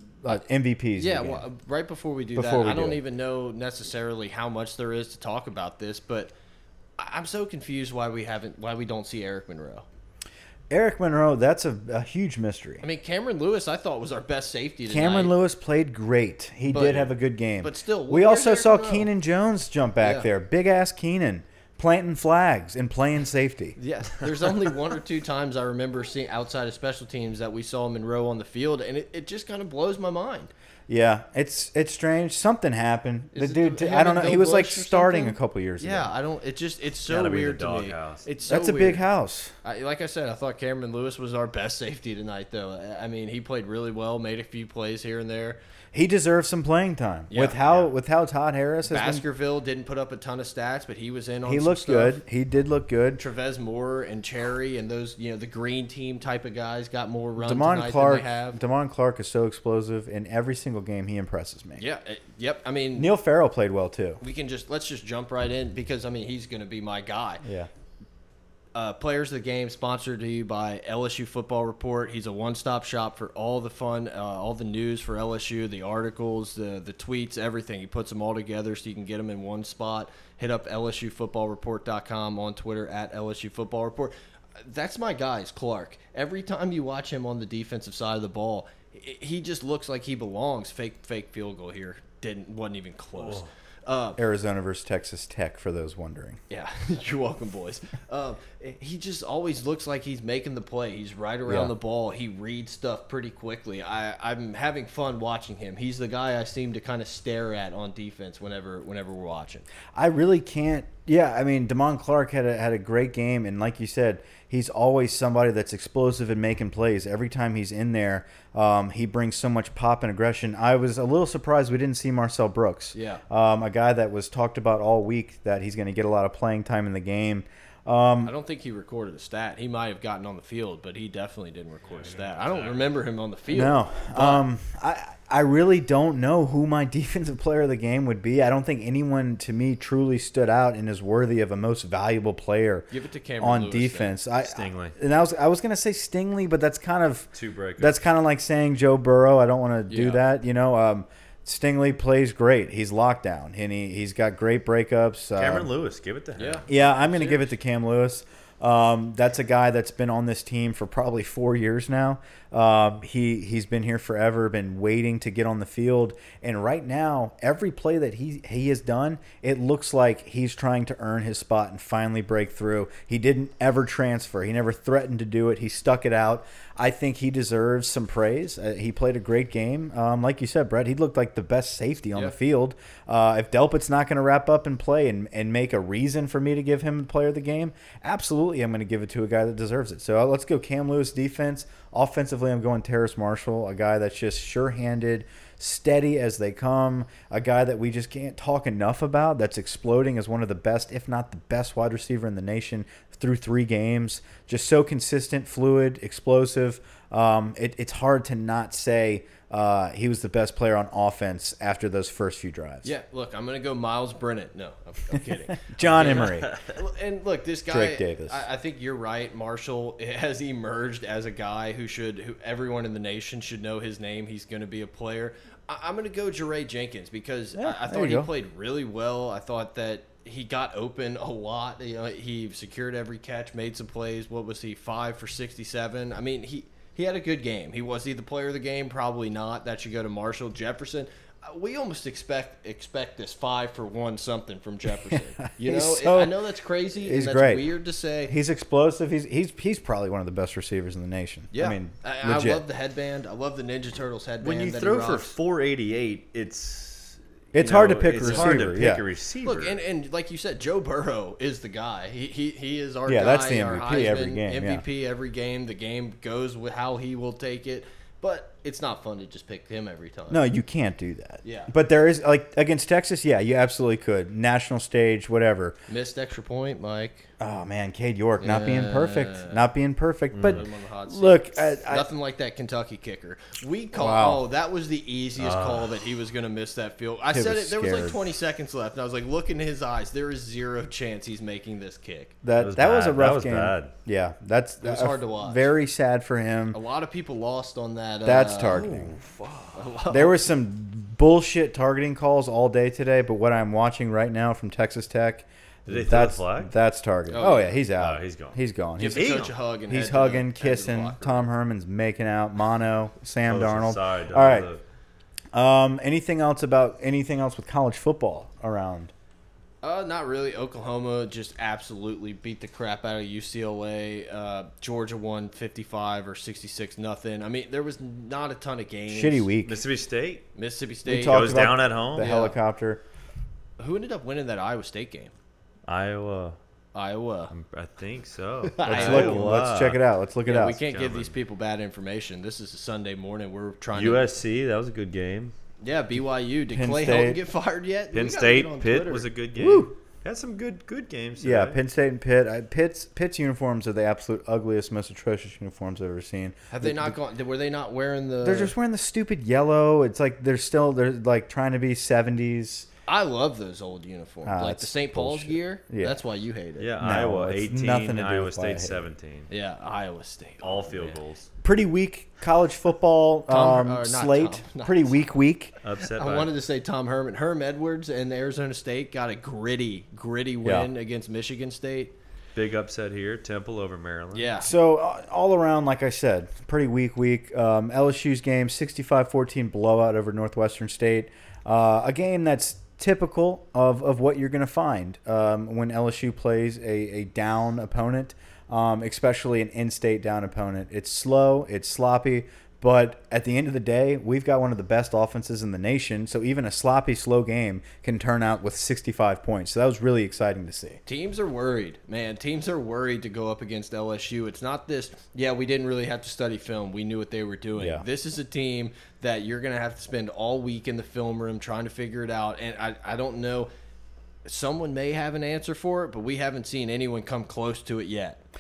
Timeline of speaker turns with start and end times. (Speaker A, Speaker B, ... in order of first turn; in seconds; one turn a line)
Speaker A: 0.2-1.4
Speaker B: 1.0-6.3
Speaker A: 2.4-3.0
Speaker B: 7.0-9.8
Speaker A: 10.7-12.8
Speaker B: 12.8-15.3
Speaker A: 14.9-23.8
Speaker B: 16.7-19.1
Speaker B: 20.0-20.3
Speaker B: 23.8-30.5
Speaker A: 30.9-36.1
Speaker B: 33.3-39.0
Speaker C: 37.1-38.3
Speaker A: 38.5-39.5
Speaker B: 39.6-45.6
Speaker A: 45.9-49.2
Speaker B: 47.3-47.9
Speaker B: 48.9-52.2
Speaker A: 51.5-53.2
Speaker B: 53.2-58.6
Speaker A: 57.4-61.8
Speaker B: 61.8-63.1
Speaker A: 63.0-64.2
Speaker B: 64.2-67.4
Speaker A: 67.4-67.7
Speaker B: 68.8-94.2
Speaker C: 93.2-93.5
Speaker A: 94.2-96.4
Speaker B: 96.5-109.7
Speaker A: 101.5-101.7
Speaker A: 109.9-128.3
Speaker B: 122.9-123.2
Speaker B: 128.2-134.4
Speaker C: 131.9-132.9
Speaker A: 133.5-155.7
Speaker B: 142.9-144.2
Speaker C: 144.4-144.9
Speaker C: 147.3-148.0
Speaker B: 149.9-150.2
Speaker C: 155.4-156.7
Speaker B: 156.4-157.5
Speaker A: 156.7-212.9
Speaker B: 212.8-248.3
Speaker A: 215.5-216.5
Speaker C: 216.0-216.7
Speaker A: 217.7-218.4
Speaker A: 227.6-228.3
Speaker A: 245.1-246.4
Speaker A: 247.0-252.6
Speaker B: 251.5-255.3
Speaker C: 254.4-259.8
Speaker A: 257.5-259.0
Speaker B: 258.2-258.6
Speaker B: 259.4-270.4
Speaker A: 263.1-264.9
Speaker A: 270.3-275.8
Speaker B: 271.4-271.7
Speaker B: 275.9-277.3
Speaker A: 277.4-282.1
Speaker B: 278.4-279.6
Speaker C: 280.3-280.6
Speaker B: 280.4-292.4
Speaker A: 283.9-284.4
Speaker C: 285.4-286.0
Speaker A: 287.3-288.2
Speaker A: 292.4-296.8
Speaker C: 292.6-293.9
Speaker B: 294.8-295.7
Speaker B: 296.7-300.5
Speaker A: 298.2-299.1
Speaker C: 298.8-299.7
Speaker A: 300.1-314.7
Speaker C: 305.9-306.7
Speaker B: 307.3-307.8
Speaker C: 307.4-309.6
Speaker B: 309.0-311.5
Speaker C: 313.5-314.8
Speaker A: 315.5-319.1
Speaker B: 319.8-329.5
Speaker A: 329.1-329.8
Speaker C: 329.6-330.5
Speaker B: 330.6-332.6
Speaker A: 331.1-333.0
Speaker C: 331.1-332.3
Speaker B: 333.8-335.3
Speaker C: 335.9-336.6
Speaker B: 336.9-337.5
Speaker C: 337.5-340.0
Speaker B: 338.8-339.5
Speaker A: 338.9-340.8
Speaker B: 340.4-344.3
Speaker C: 340.9-341.3
Speaker C: 343.9-345.6
Speaker B: 345.8-349.3
Speaker A: 346.7-347.4
Speaker C: 348.1-351.8
Speaker A: 349.6-349.9
Speaker A: 351.4-357.2
Speaker B: 356.7-358.7
Speaker A: 358.4-362.9
Speaker B: 363.1-366.9
Speaker A: 364.4-366.2
Speaker C: 366.8-369.5
Speaker A: 367.0-369.1
Speaker B: 369.5-371.2
Speaker C: 370.6-371.5
Speaker A: 371.6-375.8
Speaker B: 373.5-375.1
Speaker C: 375.8-376.5
Speaker B: 376.0-382.1
Speaker A: 380.6-380.9
Speaker C: 382.6-384.5
Speaker B: 384.3-384.7
Speaker A: 384.6-411.0
Speaker B: 411.1-423.7
Speaker A: 417.8-418.1
Speaker B: 424.4-428.4